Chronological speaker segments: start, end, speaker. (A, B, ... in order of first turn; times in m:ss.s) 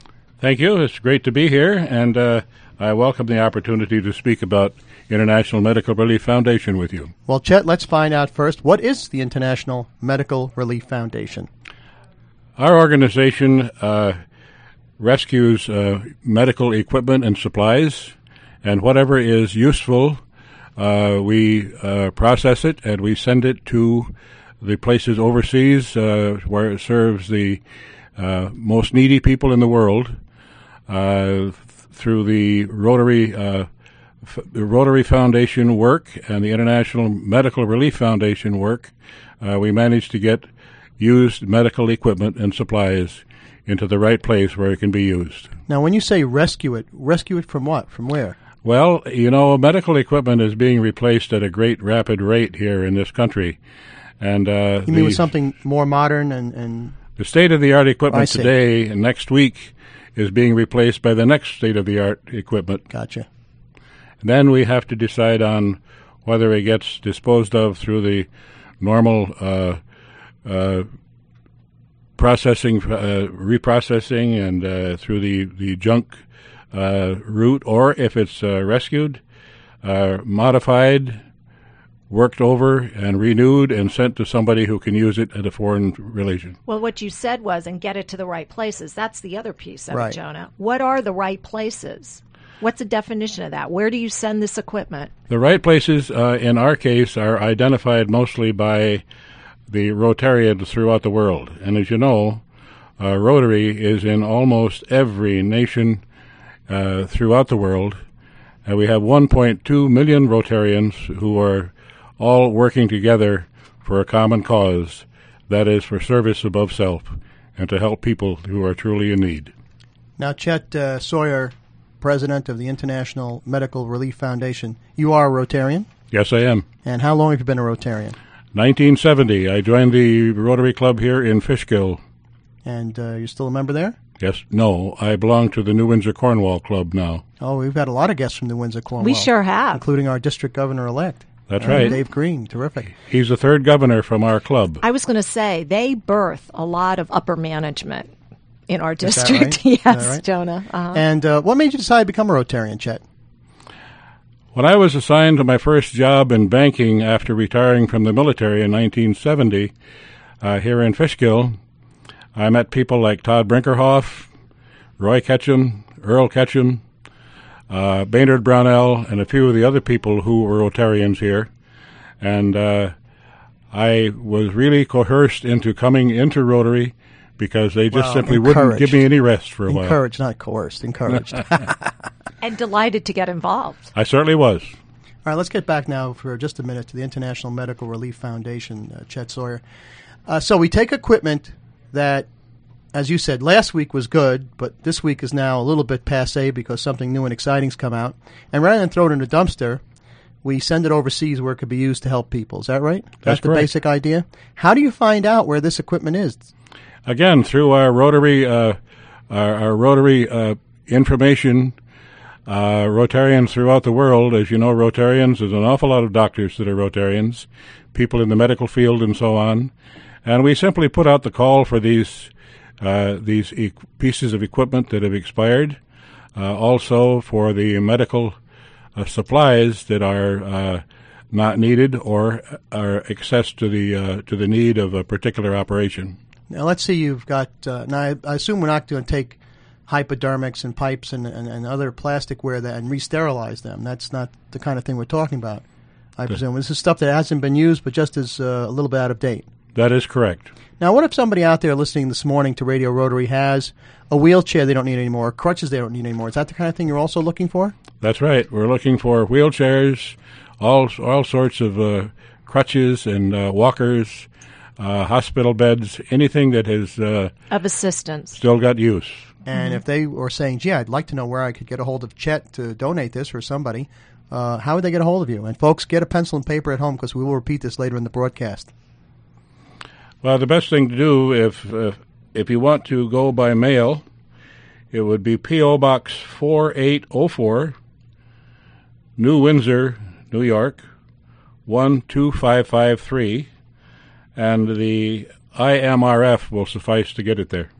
0:00.4-0:07.1 A
0:07.3-0:11.5 B
0:12.6-0:14.2 A
0:15.0-0:20.2 A
0:20.8-0:27.6 A
0:28.2-0:30.2 A
0:30.9-0:33.7 A
0:34.2-0:40.4 A
0:41.0-0:45.5 A
0:45.7-0:48.4 B
0:48.6-0:53.6 A
0:54.2-0:55.3 A
0:54.8-0:57.0 B
0:57.2-1:02.8 A
0:58.1-0:58.5 B
1:02.9-1:03.3 B
1:04.2-1:08.3 A
1:08.8-1:09.8 A
1:10.4-1:10.9 A
1:12.2-1:16.2 A
1:16.7-1:19.2 A
1:19.8-1:21.2 A
1:22.1-1:26.6 A
1:26.7-1:35.1 C
1:35.3-1:39.0 A
1:39.7-1:42.4 A
1:43.0-1:46.0 A
1:46.7-1:48.0 A
1:48.6-1:59.5 A
2:00.2-2:05.9 B
2:06.1-2:06.6 A
2:06.8-2:08.2 B
2:08.5-2:12.0 A
2:12.6-2:14.0 B
2:14.2-2:17.2 A
2:17.4-2:22.9 B
2:19.0-2:19.8 C
2:21.5-2:22.0 A
2:23.0-2:24.8 A
2:24.8-2:28.1 C
2:28.7-2:31.0 C
2:29.0-2:30.2 B
2:30.9-2:33.0 B
2:34.5-2:39.7 A
2:40.4-2:41.5 A
2:42.3-2:44.3 A
2:45.0-2:46.8 A
2:47.7-2:51.5 A
2:52.2-2:52.9 A
2:53.7-3:00.0 A
2:57.9-2:59.0 B
2:59.7-3:01.9 B
3:02.4-3:03.9 C
3:03.9-3:04.8 A
3:05.2-3:09.6 B
3:10.3-3:12.3 B
3:12.9-3:19.8 B
3:20.4-3:26.4 B
3:23.2-3:23.7 A
3:27.0-3:28.8 A
3:29.3-3:31.7 A
3:32.5-3:39.7 A
3:40.2-3:45.8 A
3:46.4-3:48.4 A
3:49.0-3:56.2 A
3:56.5-4:05.6 B
4:06.2-4:09.4 B
4:09.7-4:10.5 A
4:10.8-4:17.7 B
4:18.0-4:24.3 A
4:24.8-4:27.3 A
4:27.5-4:28.4 C
4:28.4-4:29.3 A
4:29.4-4:38.7 B
4:40.2-4:44.0 A
4:44.9-4:47.8 A
4:49.2-4:50.8 A
4:51.6-4:53.5 A
4:54.4-4:57.7 A